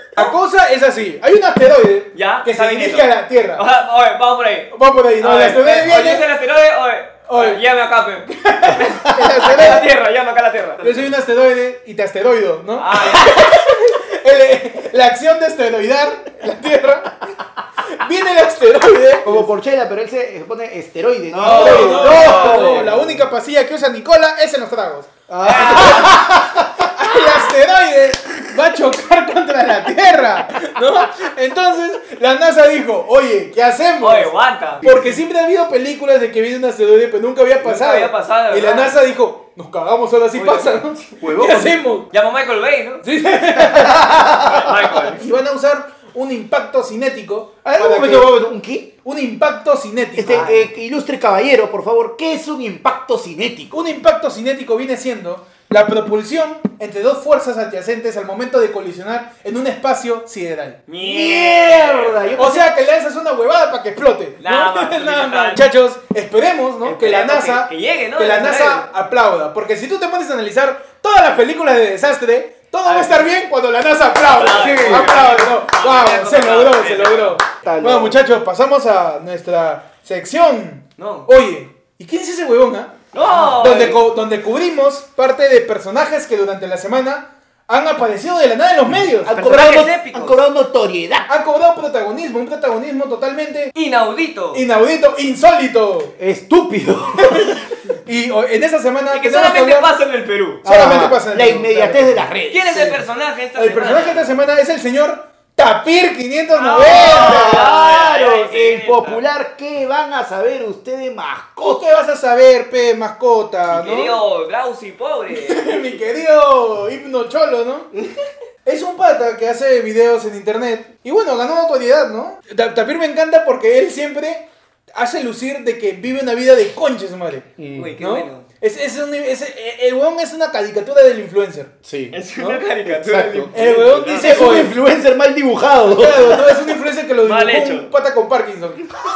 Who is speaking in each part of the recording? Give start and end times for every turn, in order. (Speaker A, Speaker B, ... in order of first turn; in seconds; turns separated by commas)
Speaker A: 0.2-3.6, Speaker B: 2.1-11.1, Speaker A: 4.7-6.3, Speaker A: 7.3-7.6, Speaker A: 8.5-9.9, Speaker A: 10.8-17.2, Speaker B: 12.8-13.7, Speaker A: 18.0-19.5, Speaker C: 19.2-23.2, Speaker B: 21.3-22.9, Speaker A: 21.4-42.1, Speaker C: 25.3-26.4, Speaker B: 25.4-26.2, Speaker B: 34.0-34.9, Speaker B: 37.6-39.0, Speaker B: 40.3-41.0, Speaker C: 41.2-41.7, Speaker B: 42.1-43.0, Speaker A: 43.0-44.4, Speaker C: 43.8-44.7, Speaker B: 44.4-45.2, Speaker A: 45.2-48.4, Speaker C: 47.6-48.9, Speaker A: 49.0-50.7, Speaker C: 50.2-53.8, Speaker B: 50.3-50.6, Speaker A: 53.7-60.8, Speaker B: 60.9-62.5, Speaker C: 61.0-62.7, Speaker A: 62.4-82.9, Speaker B: 64.4-65.6, Speaker B: 66.8-68.9, Speaker B: 72.8-73.3, Speaker B: 74.3-77.5, Speaker C: 74.4-75.2, Speaker C: 77.6-78.2, Speaker B: 81.0-81.3, Speaker B: 83.1-84.0, Speaker C: 83.2-83.9, Speaker A: 83.6-89.3, Speaker C: 89.1-91.3, Speaker B: 89.3-90.4, Speaker A: 91.3-93.7, Speaker B: 93.7-94.7, Speaker A: 94.5-96.2, Speaker C: 96.2-97.6, Speaker A: 98.1-99.9, Speaker B: 99.1-100.7, Speaker A: 100.6-102.3, Speaker C: 100.6-103.0, Speaker B: 102.5-104.4, Speaker A: 103.5-107.8, Speaker B: 106.5-109.2, Speaker C: 106.8-112.1, Speaker A: 111.6-114.2, Speaker B: 113.7-115.7, Speaker A: 115.3-117.9, Speaker A: 118.7-131.7, Speaker C: 127.6-127.9, Speaker B: 127.8-128.5, Speaker C: 131.8-132.2, Speaker B: 132.1-134.7, Speaker A: 132.4-132.7, Speaker C: 132.9-133.5, Speaker A: 133.5-134.8, Speaker C: 134.1-136.6, Speaker A: 135.9-138.9, Speaker B: 137.2-137.9